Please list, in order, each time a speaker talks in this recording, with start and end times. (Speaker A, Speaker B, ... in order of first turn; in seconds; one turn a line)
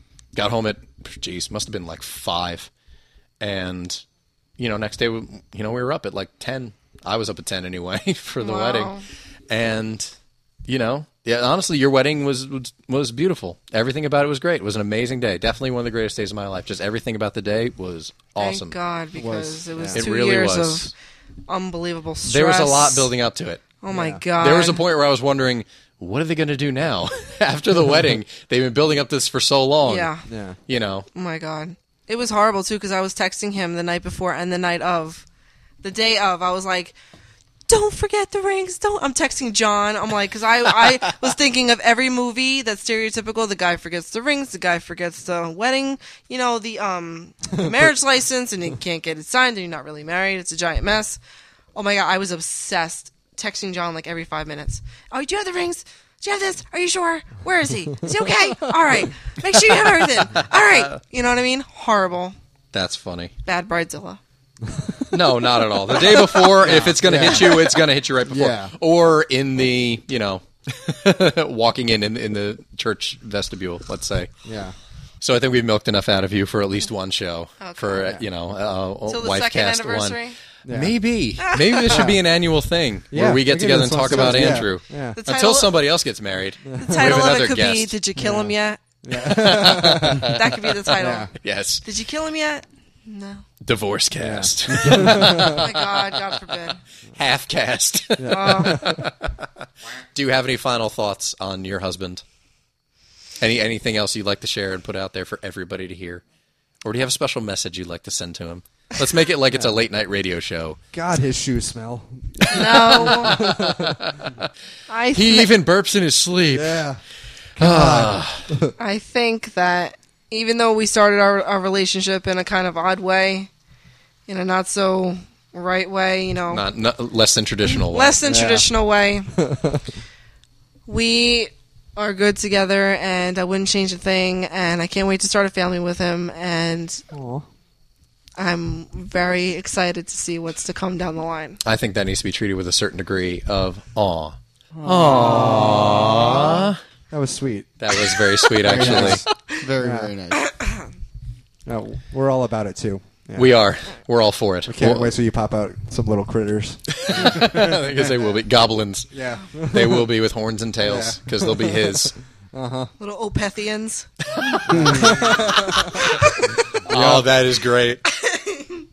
Speaker A: 0.3-2.7
Speaker A: 3.4-4.0
Speaker A: 4.6-8.9
Speaker B: 8.4-9.0
Speaker A: 9.5-10.1
Speaker A: 10.7-18.8
Speaker B: 18.4-20.9
Speaker C: 19.1-20.0
Speaker A: 19.9-20.9
Speaker B: 21.5-23.1
Speaker A: 22.3-23.6
Speaker B: 23.8-24.8
Speaker C: 23.9-24.2
Speaker A: 24.4-30.1
Speaker B: 29.8-30.2
Speaker C: 30.3-30.6
Speaker A: 30.7-31.1
Speaker B: 31.1-35.2
Speaker B: 35.8-37.0
Speaker B: 37.7-51.2
Speaker B: 51.7-62.4
Speaker A: 59.5-60.9
Speaker A: 62.7-63.3
Speaker B: 63.4-64.2
Speaker C: 64.7-65.1
Speaker A: 65.1-74.3
Speaker C: 66.4-67.6
Speaker B: 67.2-67.7
Speaker C: 68.3-68.7
Speaker C: 74.4-74.8
Speaker A: 75.2-87.9
Speaker B: 77.6-78.1
Speaker B: 79.1-80.3
Speaker C: 80.7-80.9
Speaker B: 81.4-82.1
Speaker C: 81.9-82.2
Speaker C: 83.1-85.2
Speaker B: 85.2-85.7
Speaker C: 86.7-87.1
Speaker B: 86.8-88.8
Speaker C: 88.2-88.5
Speaker C: 89.0-90.4
Speaker A: 89.2-90.8
Speaker B: 90.2-91.3
Speaker C: 91.0-91.3
Speaker A: 91.4-91.8
Speaker B: 91.8-93.4
Speaker A: 93.6-99.3
Speaker C: 94.2-95.6
Speaker B: 94.9-96.8
Speaker C: 98.2-99.0
Speaker B: 98.3-99.0
Speaker A: 100.1-102.2
Speaker A: 103.4-106.2
Speaker A: 106.8-110.8
Speaker C: 110.9-114.3
Speaker B: 112.5-113.4
Speaker A: 112.8-114.3
Speaker B: 114.9-115.5
Speaker A: 115.1-116.8
Speaker C: 116.5-117.0
Speaker A: 117.6-118.5
Speaker C: 117.6-118.7
Speaker B: 118.8-123.5
Speaker B: 124.3-126.6
Speaker A: 126.5-128.2
Speaker B: 127.7-129.3
Speaker C: 128.2-128.7
Speaker C: 129.3-129.9
Speaker B: 130.9-137.0
Speaker C: 137.1-137.4
Speaker B: 138.4-141.6
Speaker A: 141.6-146.8
Speaker D: 144.7-146.6
Speaker C: 145.1-146.2
Speaker C: 147.1-147.7
Speaker A: 147.8-149.2
Speaker D: 148.6-150.5
Speaker C: 148.7-149.2
Speaker C: 149.8-150.1
Speaker B: 150.4-150.8
Speaker C: 151.7-153.5
Speaker A: 153.3-155.1
Speaker C: 154.7-158.0
Speaker A: 156.9-159.1
Speaker C: 159.1-160.1
Speaker A: 159.6-162.2
Speaker C: 160.8-162.0
Speaker C: 162.5-162.9
Speaker B: 163.0-164.1
Speaker A: 164.4-165.2
Speaker C: 164.6-166.0
Speaker B: 165.4-166.6
Speaker A: 166.8-168.0
Speaker C: 166.9-167.3
Speaker B: 168.1-168.8